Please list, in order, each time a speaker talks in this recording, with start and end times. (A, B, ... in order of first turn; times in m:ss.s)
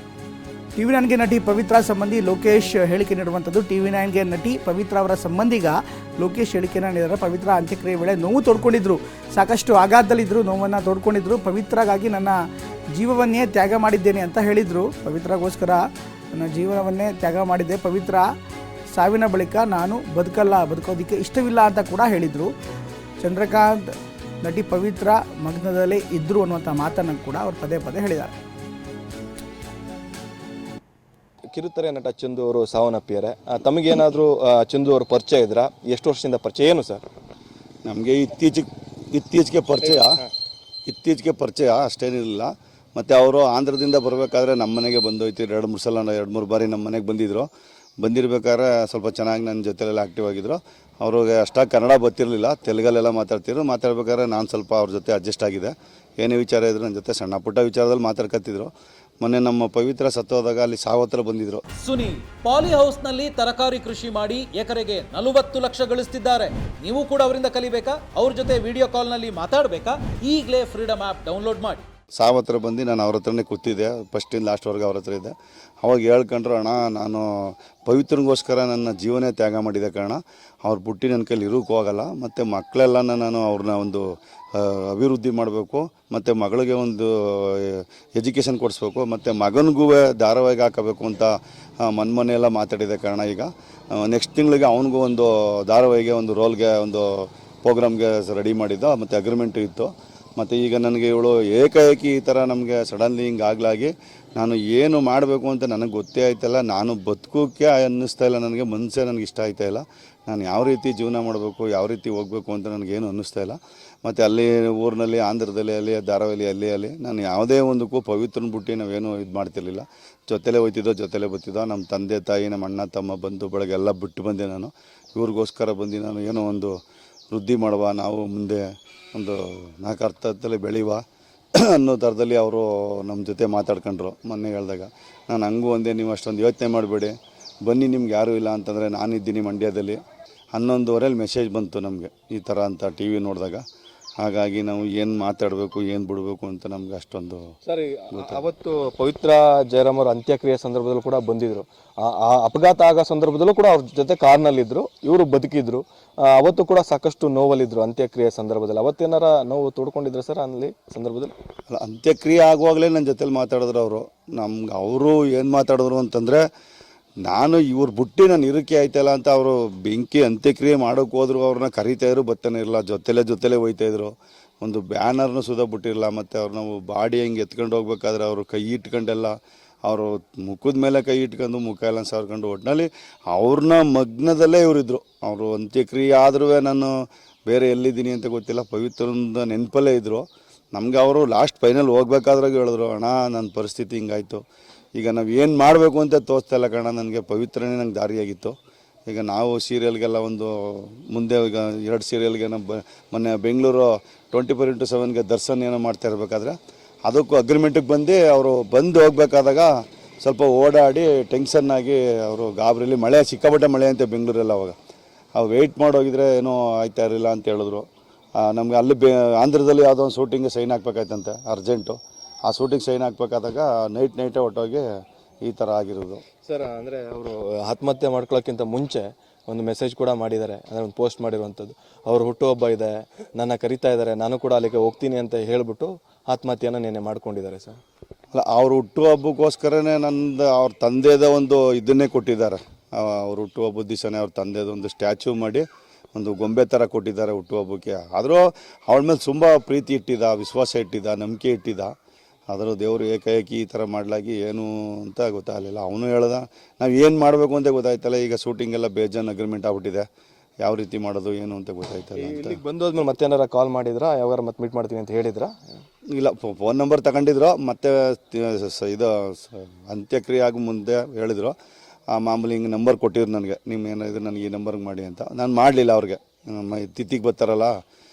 0:00.8-0:12.4 A
0:12.9-0:15.8 A
0:16.3-0:18.2 A
0:18.9-0:22.5 A
0:23.2-0:28.3 A
0:31.5-0:37.0 B
0:37.8-0:40.2 C
0:40.9-0:47.5 C
0:48.0-1:01.6 C
1:01.8-1:11.8 D
1:12.2-2:06.8 C
2:07.3-2:11.0 C
2:11.5-2:20.0 C
2:20.5-2:23.6 C
2:24.2-2:27.5 C
2:27.7-2:41.3 B
2:28.1-2:28.4 C
2:41.7-2:46.4 C
2:47.2-3:14.4 C
3:15.0-3:18.6 C
3:19.1-3:34.8 C
3:35.4-3:37.9 C
3:38.4-3:44.9 C
3:45.4-3:46.2 C
3:46.4-3:57.8 B
3:58.3-4:11.9 C
4:12.5-4:20.0 C
4:20.6-4:22.6 C
4:22.2-4:25.6 B
4:26.1-4:31.6 C
4:32.1-4:37.8 C